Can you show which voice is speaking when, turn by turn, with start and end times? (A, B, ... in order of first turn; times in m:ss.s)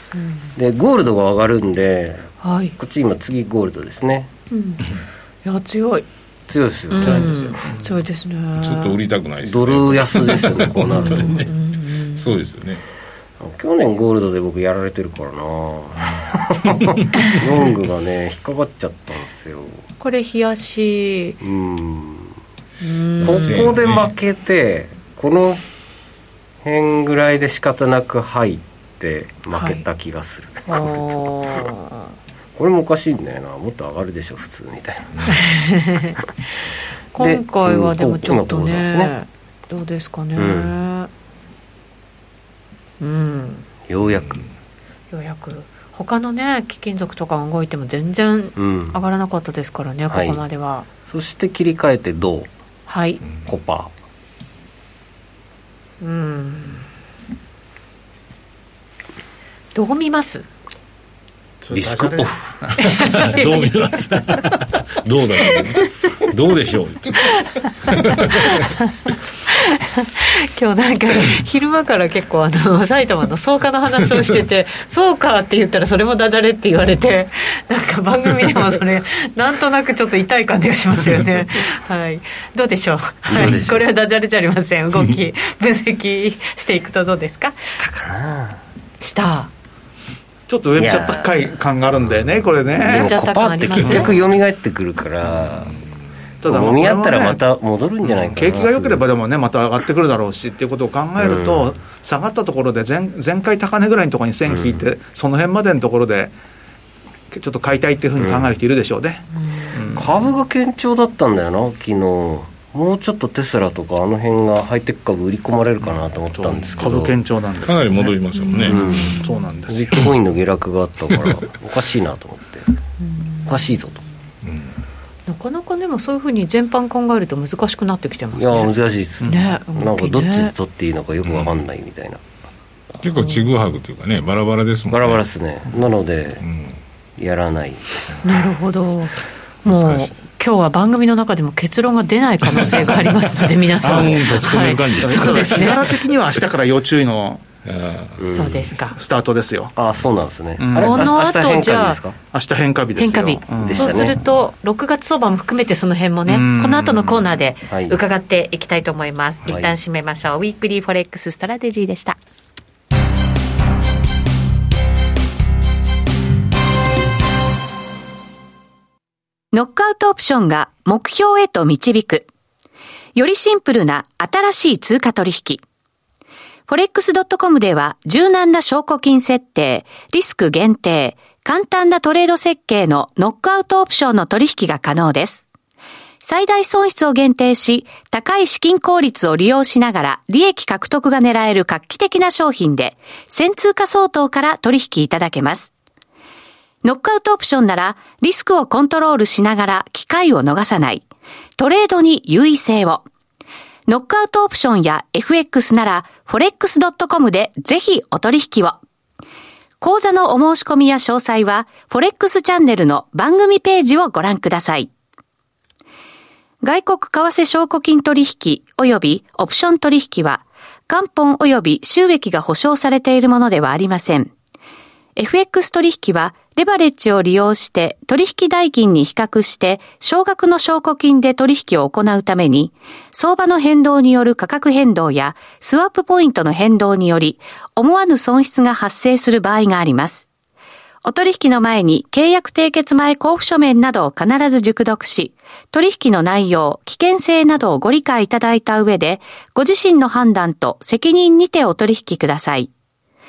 0:00.2-0:00.5 A
0:00.6-0:04.3 B
0:02.4-0:02.8 A
0:04.5-0:04.9 A
0:05.4-0:06.1 A
0:06.5-0:07.5 B
0:06.9-0:09.0 A
0:07.0-0:07.9 C
0:08.6-0:12.8 D
0:09.4-0:11.5 B
0:10.9-0:12.4 A
0:13.4-0:19.8 B
0:20.0-0:21.4 A
0:21.4-0:22.4 B
0:22.8-0:23.8 A
0:23.2-0:25.6 B
0:23.2-0:24.1 D
0:26.6-0:31.7 B
0:29.5-0:29.8 A
0:30.7-0:32.0 A
0:32.6-0:35.4 B
0:35.3-0:36.2 A
0:37.1-0:41.1 A
0:37.2-0:39.1 B
0:40.4-0:40.7 B
0:43.0-0:43.7 A
0:43.9-0:44.4 B
0:44.1-0:44.4 D
0:45.1-0:50.9 A
0:48.6-0:49.0 B
0:50.1-0:50.4 B
0:51.1-0:52.5 B
0:52.9-0:53.2 A
0:53.5-0:53.9 B
0:56.0-0:56.8 A
0:59.7-1:00.5 A
1:01.6-1:03.1 C
1:01.7-1:02.6 B
1:02.8-1:03.8 A
1:02.8-1:08.7 D
1:05.5-1:05.9 A
1:07.2-1:08.9 A
1:09.5-1:27.7 A
1:23.3-1:23.8 B
1:27.7-1:28.6 B
1:29.0-1:29.5 A
1:30.5-1:33.2 C
1:30.8-1:31.2 B
1:32.8-1:35.8 B
1:32.8-1:34.2 A
1:33.8-1:34.2 C
1:36.4-1:37.4 C
1:36.4-1:39.0 B
1:38.0-1:46.3 C
1:41.2-1:41.7 B
1:44.5-1:44.8 B
1:47.3-1:50.1 C
1:48.2-1:48.5 B
1:49.9-1:57.2 B
1:56.3-2:00.0 C
1:57.6-1:59.2 D
1:58.4-1:59.5 A
1:58.6-2:02.7 B
2:03.0-2:03.7 A
2:03.5-2:04.0 B
2:04.4-2:04.7 D
2:05.3-2:10.5 A
2:08.4-2:12.2 B
2:11.2-2:11.6 D
2:13.0-2:15.2 D
2:13.2-2:13.5 A
2:14.9-2:16.4 B
2:16.4-2:16.8 D
2:17.2-2:18.4 B
2:18.2-2:25.9 A
2:19.7-2:20.1 D
2:22.5-2:23.1 D
2:23.8-2:25.9 D
2:25.0-2:27.4 C
2:27.7-2:28.2 D
2:28.2-2:28.7 B
2:28.3-2:29.0 A
2:28.9-2:29.7 C
2:29.8-2:32.2 B
2:30.6-2:31.2 C
2:30.8-2:32.0 A
2:32.3-2:34.1 C
2:33.0-2:42.2 A
2:33.6-2:34.2 B
2:36.3-2:37.3 C
2:37.7-2:38.0 B
2:39.4-2:39.7 B
2:49.5-2:52.3 E
2:53.2-2:55.6 E
2:56.7-3:05.4 E
3:06.2-3:15.7 E
3:16.8-3:21.0 E
3:21.6-3:23.0 E
3:23.9-3:28.8 E
3:29.8-3:34.9 E
3:36.6-3:44.3 E
3:45.2-4:00.3 E
4:01.0-4:12.7 E